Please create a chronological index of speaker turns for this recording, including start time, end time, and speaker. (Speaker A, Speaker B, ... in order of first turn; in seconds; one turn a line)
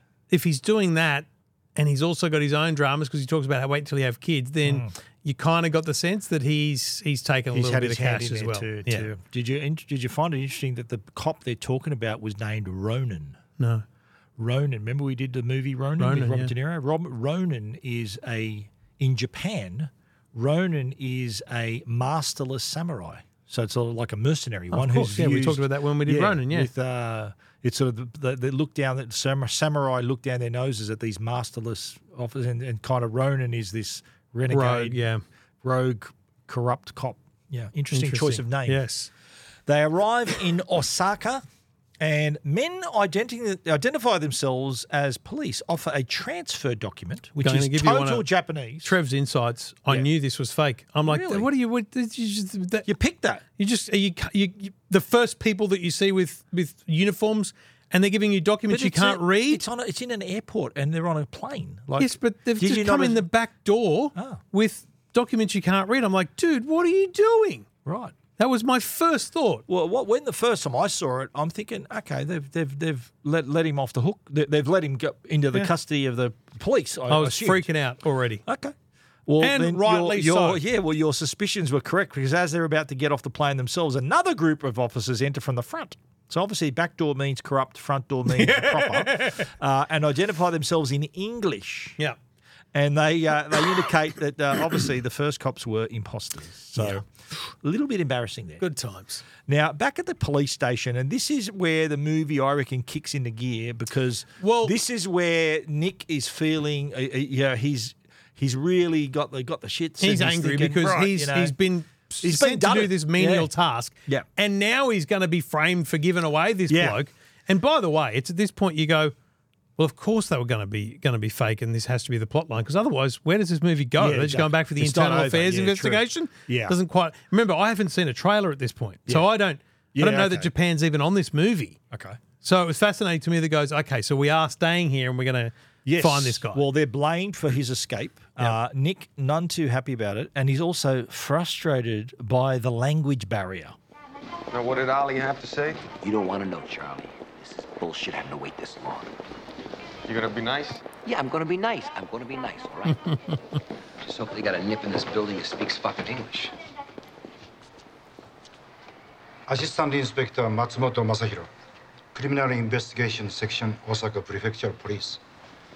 Speaker A: 0.3-9.1
Speaker B: 4.6-4.9
Speaker B: 7.5-13.4
Speaker A: 13.6-13.8
Speaker B: 14.4-35.0
Speaker A: 16.0-16.5
Speaker A: 24.7-26.7
Speaker A: 34.5-35.2
Speaker B: 35.6-38.8
Speaker A: 37.9-39.1
Speaker B: 39.7-41.4
Speaker B: 42.0-48.9
Speaker A: 47.4-48.2
Speaker A: 48.8-52.9
Speaker B: 51.1-51.5
Speaker B: 52.9-53.4
Speaker A: 53.6-59.6
Speaker B: 58.7-63.2
Speaker A: 62.0-67.7
Speaker B: 64.1-64.4
Speaker B: 67.8-68.1
Speaker A: 68.4-69.6
Speaker B: 69.7-77.7
Speaker A: 77.1-78.4
Speaker B: 78.5-78.7
Speaker B: 79.3-92.0
Speaker A: 79.4-80.6
Speaker A: 88.3-89.5
Speaker B: 92.7-97.1
Speaker A: 96.8-97.0
Speaker B: 97.6-98.6
Speaker A: 98.6-99.2
Speaker B: 99.5-111.5
Speaker A: 104.4-104.7
Speaker A: 110.0-119.1
Speaker B: 112.2-113.5
Speaker B: 116.7-117.0
Speaker A: 119.8-131.8
Speaker B: 124.0-126.8
Speaker B: 129.9-130.5
Speaker B: 131.9-132.2
Speaker A: 132.4-136.6
Speaker B: 135.8-143.8
Speaker C: 144.5-145.8
Speaker D: 146.0-149.1
Speaker C: 150.1-150.9
Speaker D: 150.9-153.0
Speaker D: 154.0-156.5
Speaker E: 159.5-161.5
Speaker E: 162.1-165.2